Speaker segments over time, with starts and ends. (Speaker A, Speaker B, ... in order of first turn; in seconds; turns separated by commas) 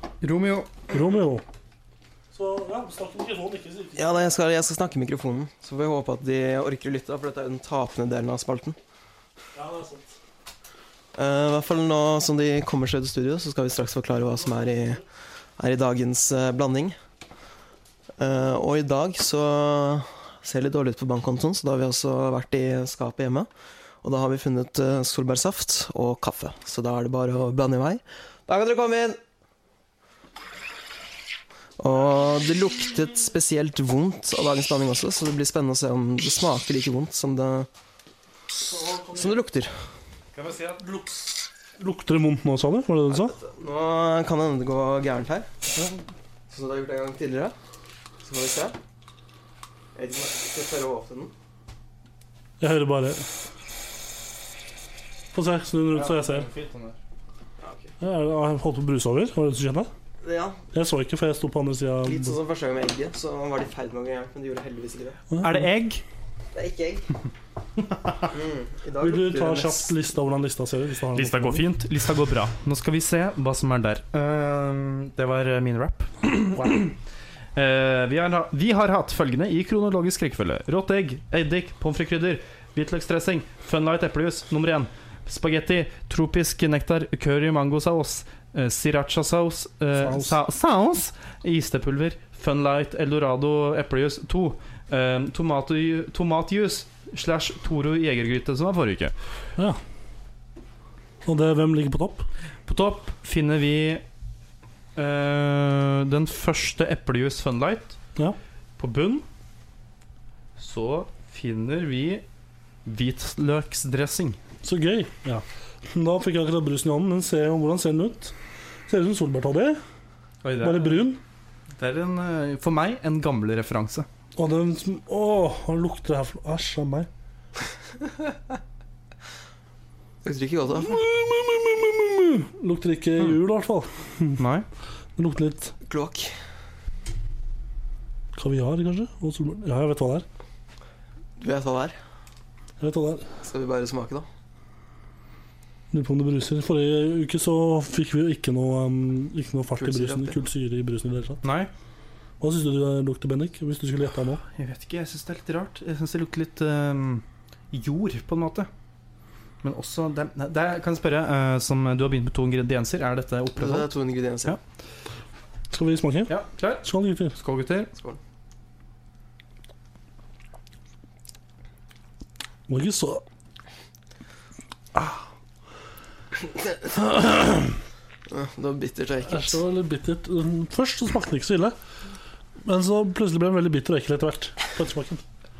Speaker A: 0.2-0.8, Speaker B: 0.9-1.4, Speaker B: 2.3-4.1, Speaker C: 4.0-8.8, Speaker B: 9.5-10.2, Speaker C: 11.1-15.0, Speaker C: 15.6-16.9, Speaker C: 18.2-23.5, Speaker C: 24.0-29.2, Speaker C: 31.8-37.7, Speaker B: 38.6-39.4, Speaker C: 39.1-39.7, Speaker A: 40.3-41.1, Speaker B: 41.8-43.4, Speaker C: 43.1-45.5, Speaker C: 46.5-47.5, Speaker C: 48.2-48.8, Speaker C: 50.0-51.3, Speaker B: 52.6-53.3, Speaker B: 55.3-56.5, Speaker A: 55.9-57.0, Speaker C: 57.6-57.9, Speaker B: 58.0-59.9, Speaker C: 60.2-60.6, Speaker B: 60.7-62.4, Speaker C: 62.0-65.2, Speaker B: 65.3-65.6, Speaker A: 65.4-66.0, Speaker C: 66.5-67.1, Speaker C: 68.3-69.9, Speaker B: 69.0-71.7, Speaker A: 71.1-76.9, Speaker A: 77.5-99.1, Speaker B: 90.0-90.4, Speaker B: 101.2-102.3, Speaker A: 102.7-104.0, Speaker A: 105.0-108.0, Speaker A: 108.8-109.2, Speaker A: 110.6-112.2, Speaker A: 112.8-114.4, Speaker B: 114.6-118.3, Speaker B: 118.9-119.8, Speaker A: 120.4-121.0, Speaker B: 120.6-121.2, Speaker A: 121.8-124.1, Speaker B: 124.3-127.1, Speaker C: 130.2-131.0, Speaker B: 130.8-134.4, Speaker A: 134.4-134.6, Speaker B: 135.2-135.7, Speaker C: 135.9-136.3, Speaker B: 138.3-140.2, Speaker C: 141.4-141.9, Speaker B: 142.8-143.3, Speaker C: 143.4-144.2, Speaker B: 145.9-151.4, Speaker C: 149.8-150.4, Speaker A: 151.4-151.7, Speaker B: 152.4-154.4, Speaker A: 154.5-158.7, Speaker A: 159.6-163.9, Speaker C: 163.6-164.6, Speaker B: 165.7-167.3, Speaker A: 166.3-167.9, Speaker B: 172.7-173.2, Speaker C: 176.4-176.8, Speaker B: 176.9-177.7, Speaker C: 178.3-179.6, Speaker B: 179.2-181.8, Speaker B: 182.6-185.2